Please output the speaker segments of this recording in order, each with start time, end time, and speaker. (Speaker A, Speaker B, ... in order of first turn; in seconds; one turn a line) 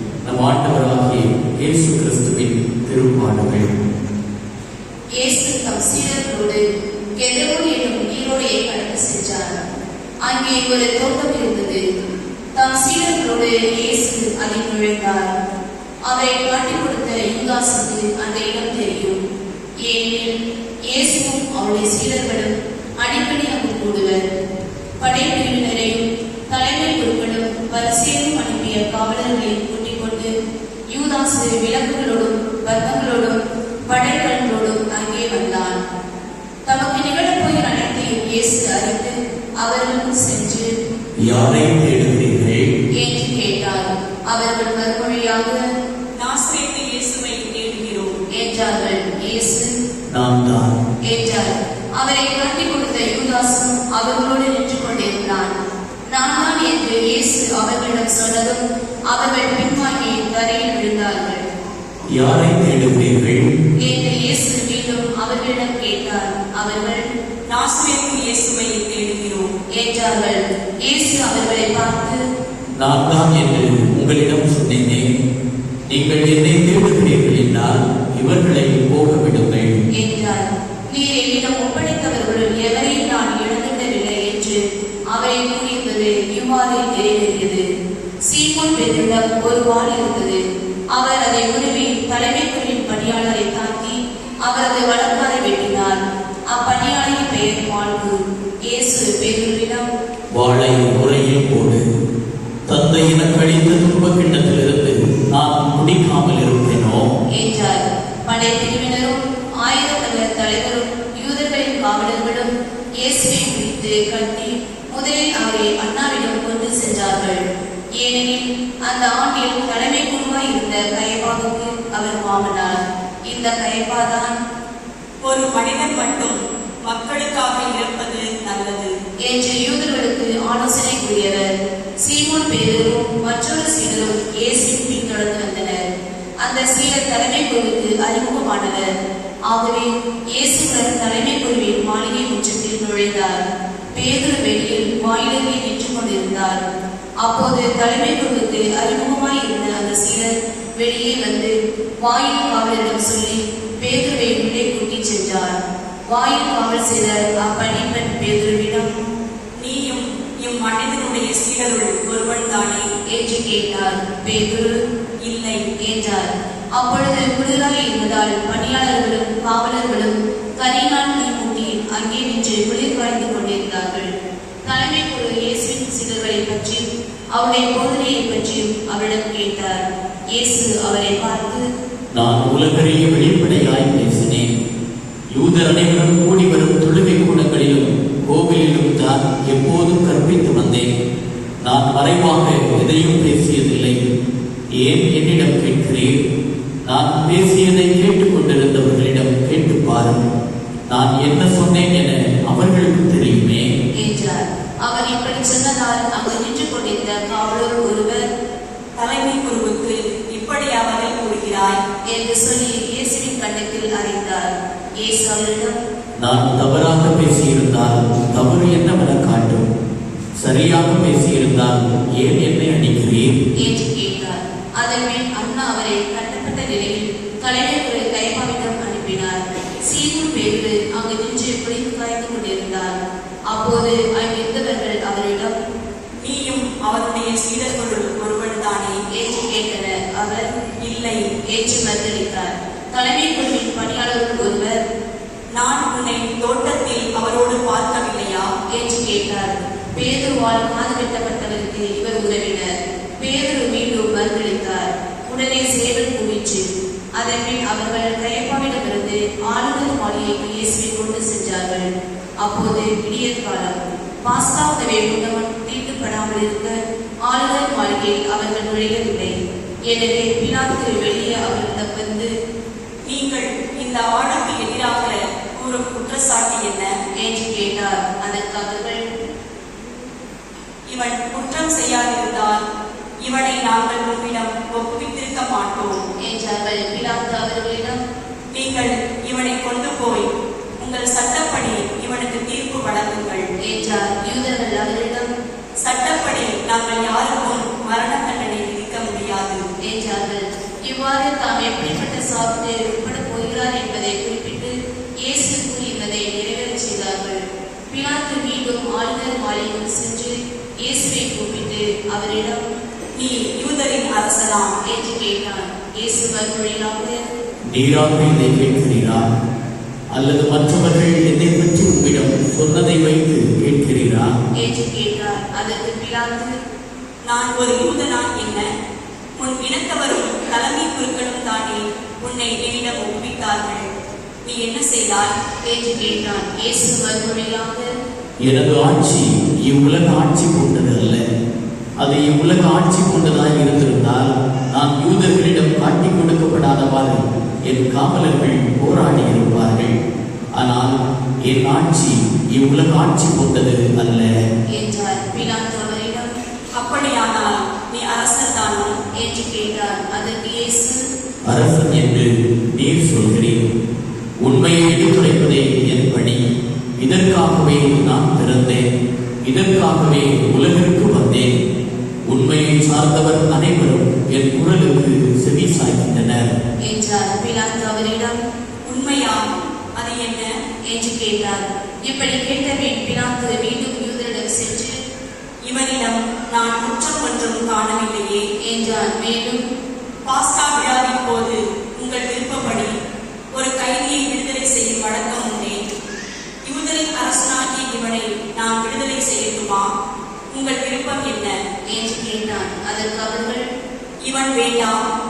Speaker A: 0.2-3.8
Speaker B: 5.2-6.6
Speaker B: 7.2-9.6
Speaker B: 10.2-11.8
Speaker B: 12.6-15.3
Speaker B: 16.1-19.2
Speaker B: 19.9-20.3
Speaker B: 20.9-24.2
Speaker B: 25.0-30.3
Speaker B: 30.9-33.4
Speaker B: 33.9-35.8
Speaker B: 36.7-40.7
Speaker A: 41.3-42.7
Speaker B: 43.0-45.6
Speaker C: 46.2-48.1
Speaker B: 48.4-49.7
Speaker A: 50.1-50.8
Speaker B: 51.1-55.5
Speaker B: 56.1-61.4
Speaker A: 62.2-63.4
Speaker B: 63.8-67.0
Speaker C: 67.5-69.5
Speaker B: 69.8-72.2
Speaker A: 72.8-75.1
Speaker A: 75.9-79.8
Speaker B: 80.0-84.6
Speaker B: 85.1-87.6
Speaker B: 88.3-90.4
Speaker B: 90.9-96.0
Speaker B: 96.5-99.8
Speaker A: 100.3-101.8
Speaker A: 102.7-107.1
Speaker B: 107.3-112.5
Speaker B: 113.0-117.4
Speaker B: 118.0-124.3
Speaker C: 125.2-128.9
Speaker B: 129.2-131.5
Speaker B: 132.0-135.8
Speaker B: 136.4-138.9
Speaker B: 139.5-143.4
Speaker B: 144.0-146.6
Speaker B: 147.2-151.5
Speaker B: 152.0-155.6
Speaker B: 156.1-158.9
Speaker C: 159.6-162.8
Speaker B: 163.1-164.8
Speaker C: 165.2-165.6
Speaker B: 165.8-174.1
Speaker B: 174.7-176.8
Speaker B: 177.3-179.8
Speaker B: 180.3-181.6
Speaker A: 182.1-184.5
Speaker A: 185.3-190.9
Speaker A: 191.6-194.0
Speaker A: 194.8-196.2
Speaker A: 196.8-200.2
Speaker A: 200.9-203.6
Speaker B: 204.0-208.2
Speaker C: 209.0-211.8
Speaker B: 212.1-214.5
Speaker B: 215.0-215.8
Speaker A: 216.2-219.7
Speaker A: 220.4-223.3
Speaker B: 223.6-233.0
Speaker B: 233.5-235.5
Speaker C: 236.2-239.0
Speaker B: 239.1-240.5
Speaker C: 240.8-241.3
Speaker B: 241.5-244.8
Speaker C: 245.6-248.4
Speaker B: 248.8-252.7
Speaker B: 253.2-256.6
Speaker B: 257.2-261.9
Speaker B: 262.4-266.8
Speaker B: 267.3-269.3
Speaker B: 269.9-272.3
Speaker C: 273.1-276.9
Speaker B: 277.2-279.0
Speaker C: 280.9-282.6
Speaker C: 283.2-286.0
Speaker B: 286.3-288.0
Speaker C: 288.5-290.3
Speaker C: 290.8-293.4
Speaker B: 293.7-295.3
Speaker C: 295.8-299.6
Speaker B: 299.9-307.4
Speaker B: 307.9-310.3
Speaker B: 310.8-312.6
Speaker C: 313.2-314.7
Speaker B: 314.9-317.2
Speaker A: 317.7-319.3
Speaker A: 320.1-324.3
Speaker B: 324.6-326.5
Speaker C: 327.3-328.6
Speaker C: 329.4-333.8
Speaker C: 334.4-335.3
Speaker B: 335.7-337.9
Speaker A: 338.4-341.2
Speaker A: 342.0-349.9
Speaker A: 350.6-350.9
Speaker A: 351.5-354.3
Speaker B: 354.7-356.3
Speaker C: 356.8-359.0
Speaker B: 359.2-361.0
Speaker A: 361.5-363.6
Speaker A: 364.4-366.4
Speaker A: 367.0-368.8
Speaker A: 369.4-371.5
Speaker A: 372.3-376.5
Speaker B: 376.9-378.4
Speaker C: 378.9-379.4
Speaker C: 380.0-380.5
Speaker B: 380.9-384.9
Speaker C: 385.7-388.4
Speaker B: 388.7-389.6
Speaker C: 390.3-392.9
Speaker C: 393.6-395.8
Speaker C: 396.7-399.9
Speaker C: 400.5-401.5
Speaker B: 401.9-403.6
Speaker C: 404.2-404.9